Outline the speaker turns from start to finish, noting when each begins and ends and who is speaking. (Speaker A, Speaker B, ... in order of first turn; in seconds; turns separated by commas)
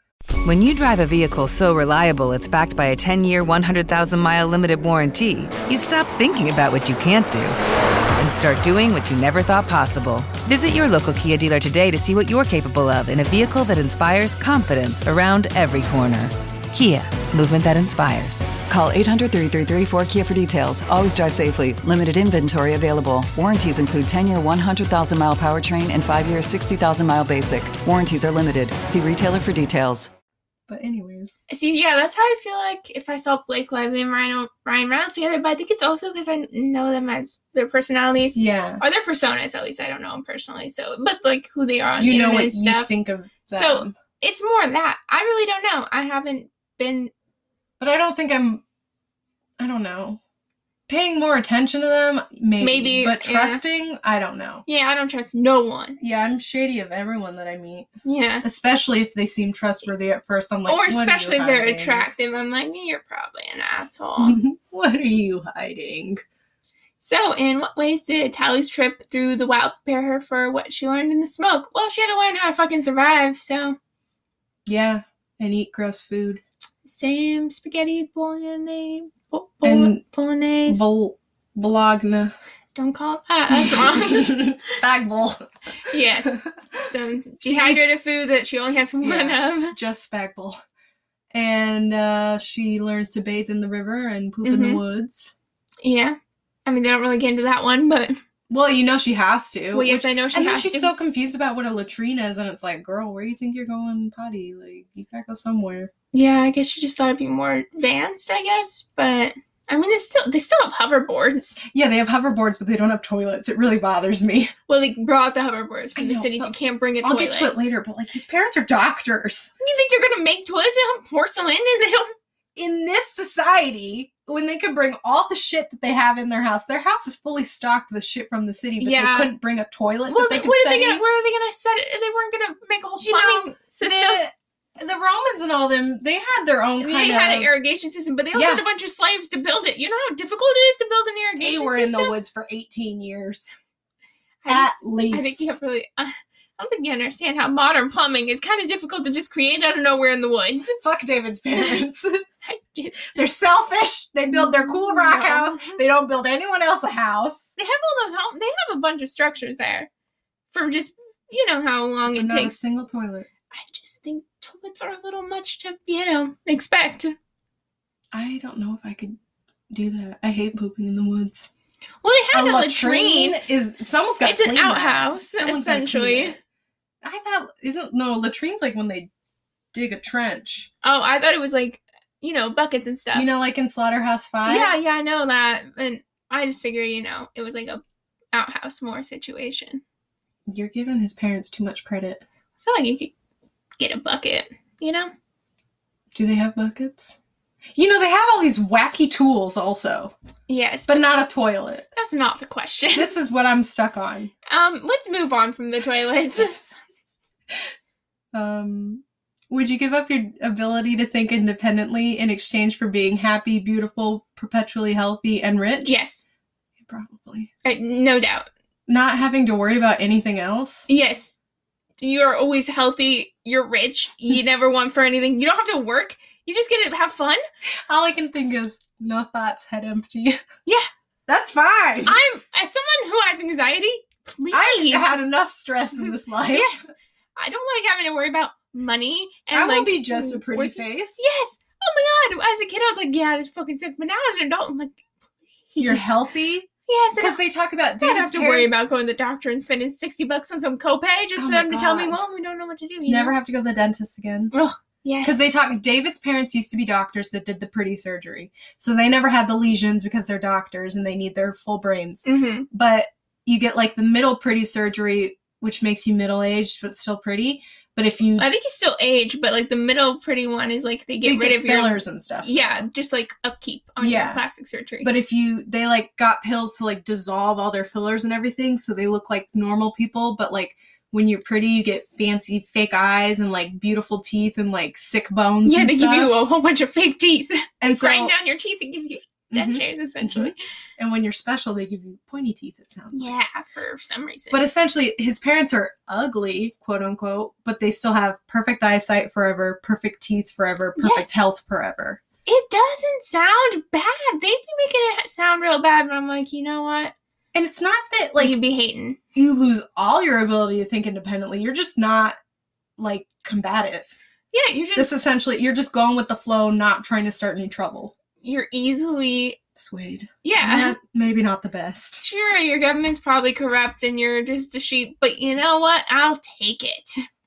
Speaker A: 0.5-7.6, Speaker A: 8.2-18.5, Speaker B: 18.6-30.1, Speaker C: 30.7-31.4, Speaker D: 31.5-42.9, Speaker C: 38.4-38.8, Speaker C: 42.0-44.0, Speaker D: 43.5-47.1, Speaker C: 47.8-48.6, Speaker C: 49.6-50.2, Speaker C: 50.9-54.6, Speaker D: 52.6-53.6, Speaker D: 54.7-56.0, Speaker C: 56.0-57.9, Speaker D: 58.0-58.5, Speaker C: 58.4-62.1, Speaker D: 60.7-64.4, Speaker C: 64.2-66.2, Speaker D: 67.0-73.8, Speaker C: 74.7-76.4, Speaker D: 76.9-80.8, Speaker C: 79.6-80.0, Speaker C: 80.7-82.3, Speaker D: 82.8-84.4, Speaker C: 83.5-85.4, Speaker D: 85.9-89.8, Speaker C: 86.2-86.8, Speaker C: 87.4-87.8, Speaker C: 89.0-90.6, Speaker C: 91.3-95.3, Speaker D: 94.4-94.8, Speaker D: 95.8-98.2, Speaker C: 98.5-105.9, Speaker D: 99.7-100.9, Speaker D: 106.1-111.6, Speaker C: 111.7-114.5, Speaker D: 114.7-117.5, Speaker C: 116.0-119.5, Speaker D: 119.6-122.1, Speaker C: 122.6-131.0, Speaker D: 128.8-129.3, Speaker D: 130.1-134.2, Speaker C: 133.0-137.5, Speaker D: 136.8-142.2, Speaker C: 138.3-138.6, Speaker C: 141.4-143.5, Speaker D: 144.4-150.8, Speaker C: 144.5-145.5, Speaker C: 150.8-152.2, Speaker D: 152.5-153.1, Speaker C: 153.0-157.6, Speaker D: 154.3-155.8, Speaker D: 157.6-159.9, Speaker D: 160.5-162.6, Speaker C: 162.1-163.3, Speaker D: 163.5-167.2, Speaker C: 168.1-169.2, Speaker C: 169.7-171.5, Speaker D: 172.0-173.4, Speaker C: 172.3-176.4, Speaker D: 174.2-176.4, Speaker C: 177.0-179.1, Speaker C: 179.7-180.7, Speaker D: 180.8-183.3, Speaker C: 183.1-184.7, Speaker D: 184.5-187.8, Speaker D: 188.3-189.8, Speaker C: 190.5-192.2, Speaker D: 192.6-193.1, Speaker D: 193.8-195.1, Speaker C: 196.1-197.2, Speaker C: 197.8-200.1, Speaker D: 200.5-201.0, Speaker C: 200.9-201.9, Speaker D: 201.9-203.1, Speaker C: 202.9-204.3, Speaker D: 204.5-206.8, Speaker C: 208.3-216.0, Speaker D: 215.8-216.2, Speaker C: 216.8-217.5, Speaker D: 217.7-218.5, Speaker C: 218.9-220.9, Speaker D: 220.9-221.4, Speaker D: 222.0-227.4, Speaker C: 227.9-230.4, Speaker C: 231.3-232.2, Speaker D: 232.1-235.2, Speaker C: 234.5-236.8, Speaker D: 236.0-245.0, Speaker C: 239.5-241.2, Speaker D: 245.7-246.2, Speaker C: 245.8-248.7, Speaker D: 246.9-247.4, Speaker D: 248.0-253.4, Speaker C: 251.4-252.2, Speaker C: 253.1-254.5, Speaker D: 254.5-255.4, Speaker C: 255.2-268.5, Speaker D: 262.2-262.7, Speaker D: 268.4-275.1, Speaker C: 271.2-272.8, Speaker C: 274.0-274.4, Speaker C: 275.0-286.4, Speaker D: 285.6-290.6, Speaker C: 287.8-288.3, Speaker C: 289.5-293.3, Speaker D: 293.1-294.6, Speaker C: 294.5-302.2, Speaker D: 301.0-301.3, Speaker D: 302.5-307.1, Speaker C: 307.5-308.6, Speaker D: 308.4-309.2, Speaker C: 309.4-312.4, Speaker C: 313.0-314.1, Speaker D: 314.5-315.1, Speaker C: 314.9-318.1, Speaker D: 318.4-319.6, Speaker C: 319.8-322.2, Speaker D: 320.4-321.0, Speaker D: 322.2-327.2